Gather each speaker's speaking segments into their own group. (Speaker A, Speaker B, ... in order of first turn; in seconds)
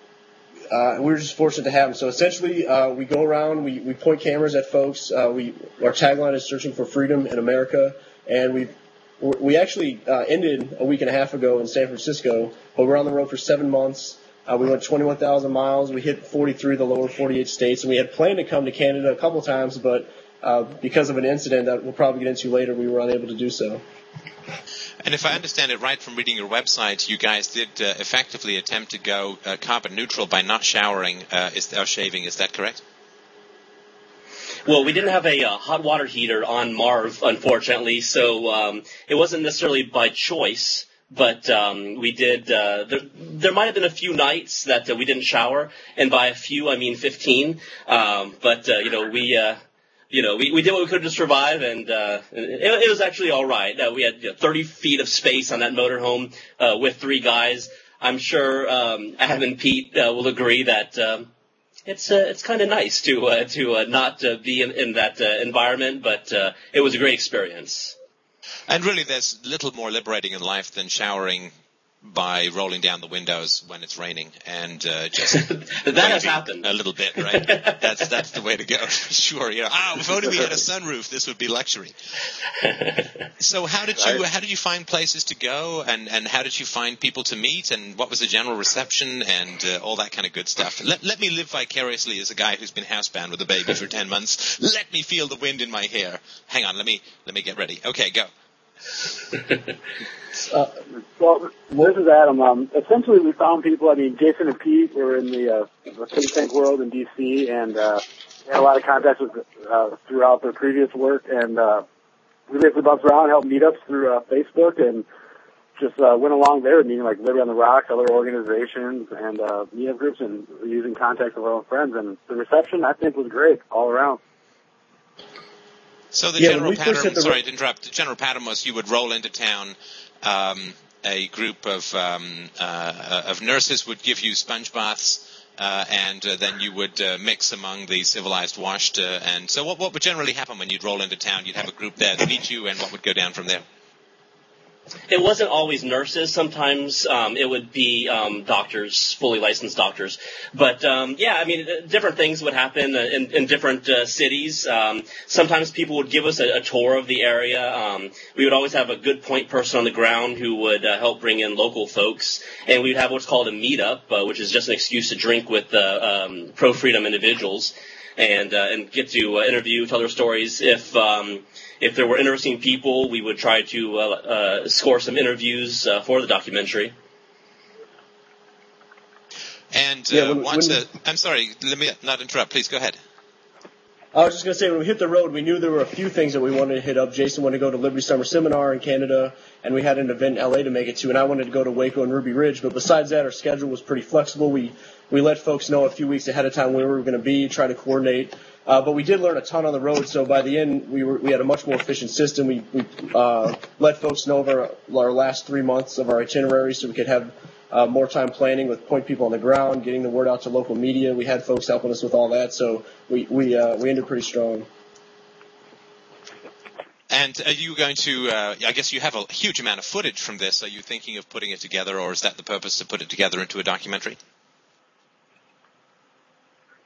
Speaker A: 0.7-23.8, 126.4-127.4, 180.1-180.8, 184.1-214.7
Speaker B: 25.0-32.8, 68.7-71.5, 72.0-81.9, 83.4-98.3, 126.1-143.6, 179.7-183.0, 217.1-224.2
Speaker C: 34.7-49.6, 50.1-61.3, 61.9-68.0, 75.3-76.7, 77.3-77.8, 145.1-176.9
Speaker D: 101.2-111.8, 112.5-115.0, 115.8-124.2